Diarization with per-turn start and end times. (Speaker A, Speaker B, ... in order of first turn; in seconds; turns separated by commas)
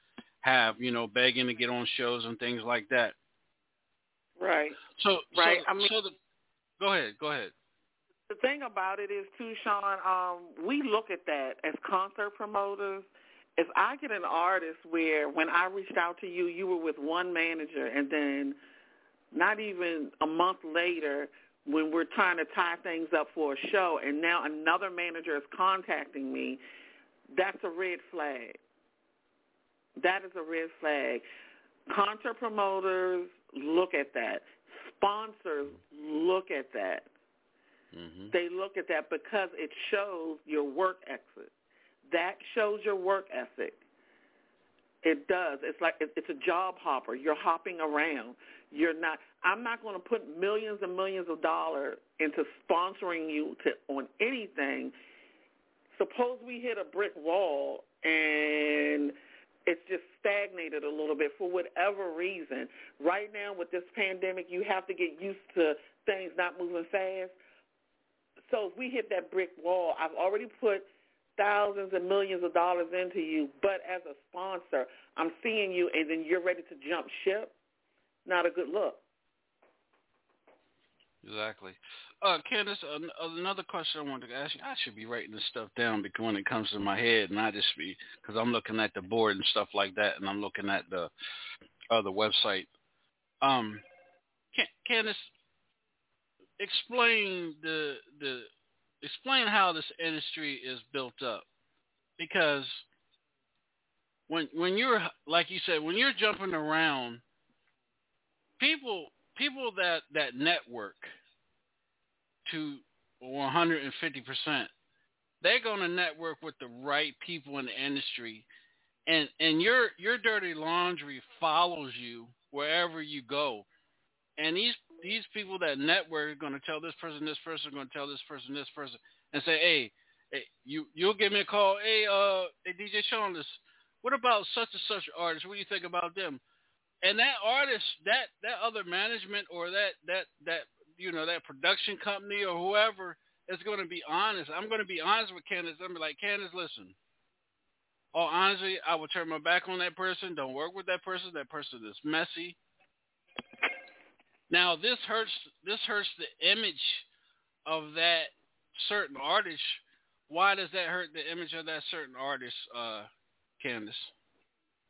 Speaker A: 0.4-3.1, Speaker B: 4.4-4.8, Speaker A: 5.0-6.1, Speaker B: 5.3-5.9, Speaker A: 6.8-7.5, Speaker B: 8.3-18.6, Speaker B: 19.3-26.6, Speaker B: 27.3-28.6, Speaker B: 30.0-31.2, Speaker B: 31.9-37.1, Speaker A: 37.9-38.3, Speaker B: 38.3-41.5, Speaker B: 42.1-43.8, Speaker B: 45.0-54.9, Speaker B: 55.9-59.1, Speaker B: 59.6-67.4, Speaker B: 68.5-77.5, Speaker B: 78.2-79.0, Speaker A: 81.2-91.1, Speaker A: 91.9-92.7, Speaker A: 93.4-93.8, Speaker A: 94.5-95.3, Speaker A: 96.6-98.5, Speaker A: 99.0-101.4, Speaker A: 102.2-102.8, Speaker A: 104.3-107.2, Speaker A: 108.6-111.1, Speaker A: 112.5-114.7, Speaker A: 115.4-118.5, Speaker A: 119.1-123.7, Speaker A: 124.4-136.4, Speaker A: 137.0-146.9, Speaker A: 148.1-152.6, Speaker A: 154.5-157.1, Speaker A: 157.7-163.1, Speaker A: 163.6-164.1